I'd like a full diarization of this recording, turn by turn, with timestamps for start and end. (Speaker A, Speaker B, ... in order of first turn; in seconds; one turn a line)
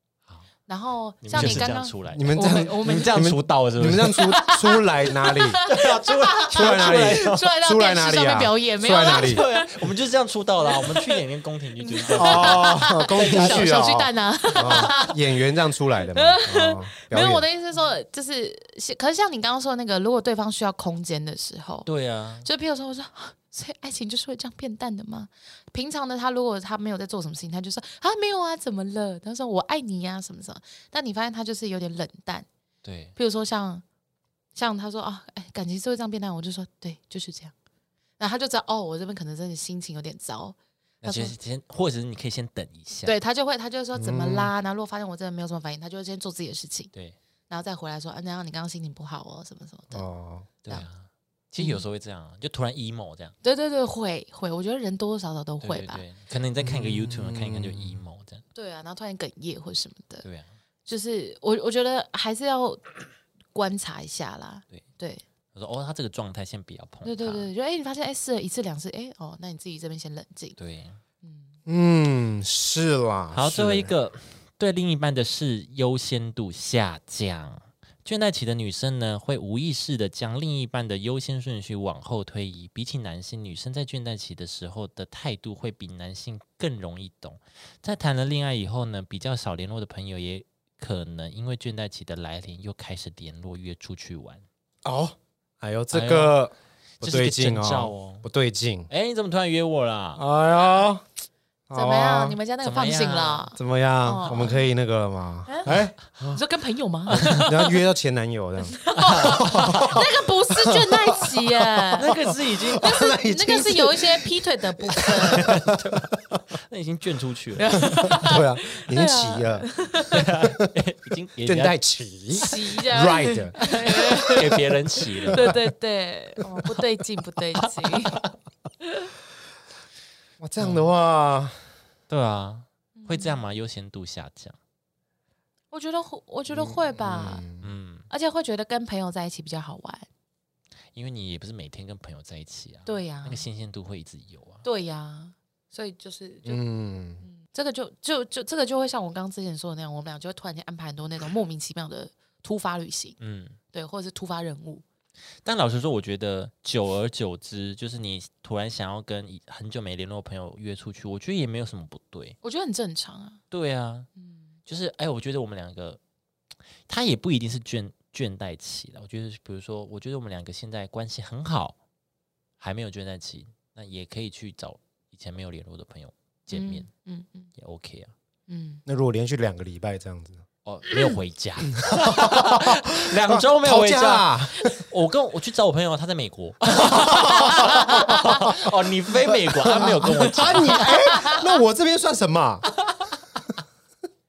Speaker A: 0.7-3.2
Speaker B: 1.2-4.3
Speaker C: 1.3-5.6
Speaker A: 4.1-9.9
Speaker B: 5.6-7.5
Speaker C: 6.5-9.4
Speaker B: 9.0-15.1
Speaker A: 10.6-11.2
Speaker A: 11.8-15.2
Speaker C: 12.1-17.4
Speaker A: 16.1-21.9
Speaker B: 21.8-22.5
Speaker A: 22.4-32.5
Speaker B: 32.8-33.1
Speaker A: 33.1-33.8
Speaker A: 34.5-37.5
Speaker A: 38.2-41.4
Speaker B: 41.0-43.1
Speaker A: 43.0-46.9
Speaker C: 43.9-44.5
Speaker A: 47.5-50.0
Speaker C: 49.9-50.5
Speaker B: 50.6-53.3
Speaker A: 53.4-56.0
Speaker B: 55.6-58.4
Speaker C: 56.6-58.0
Speaker A: 58.5-60.2
Speaker B: 60.2-60.5
Speaker A: 60.9-62.8
Speaker A: 63.5-65.2
Speaker B: 65.5-67.5
Speaker A: 67.0-70.5
Speaker B: 70.5-71.0
Speaker A: 71.2-71.5
Speaker C: 71.7-73.9
Speaker B: 73.3-94.4
Speaker C: 94.8-98.9
Speaker B: 95.9-96.4
Speaker B: 97.0-98.2
Speaker B: 98.9-100.2
Speaker C: 100.2-101.0
Speaker C: 101.7-102.4
Speaker A: 101.7-104.6
Speaker B: 102.6-103.5
Speaker C: 103.5-106.4
Speaker A: 105.5-107.8
Speaker B: 107.1-107.4
Speaker C: 107.1-116.2
Speaker A: 108.8-115.5
Speaker B: 109.0-109.9
Speaker B: 112.0-113.0
Speaker B: 115.3-118.3
Speaker A: 117.6-120.2
Speaker C: 117.9-119.7
Speaker B: 120.0-121.7
Speaker C: 121.5-124.6
Speaker A: 122.3-124.5
Speaker B: 123.6-125.5
Speaker A: 125.3-128.2
Speaker B: 127.6-128.3
Speaker C: 130.4-131.6
Speaker B: 130.6-130.9
Speaker B: 132.1-134.6
Speaker A: 132.9-133.4
Speaker A: 135.7-137.4
Speaker C: 136.5-137.6
Speaker B: 137.6-138.1
Speaker A: 138.1-140.1
Speaker B: 140.9-144.6
Speaker A: 142.9-143.4
Speaker A: 144.6-146.6
Speaker C: 146.4-147.2
Speaker A: 147.2-153.2
Speaker B: 153.2-153.6
Speaker A: 153.7-154.8
Speaker B: 155.4-162.3
Speaker A: 162.4-163.4
Speaker B: 163.5-164.1
Speaker A: 164.2-164.4
Speaker B: 164.7-166.0
Speaker B: 166.9-171.8
Speaker B: 172.6-176.9
Speaker A: 176.5-177.5
Speaker B: 177.6-178.1
Speaker A: 178.5-178.8
Speaker C: 178.8-180.4
Speaker B: 180.6-190.9
Speaker C: 181.8-184.7
Speaker A: 186.9-188.4
Speaker C: 187.2-187.8
Speaker C: 189.7-192.7
Speaker A: 189.8-191.6
Speaker B: 192.8-193.1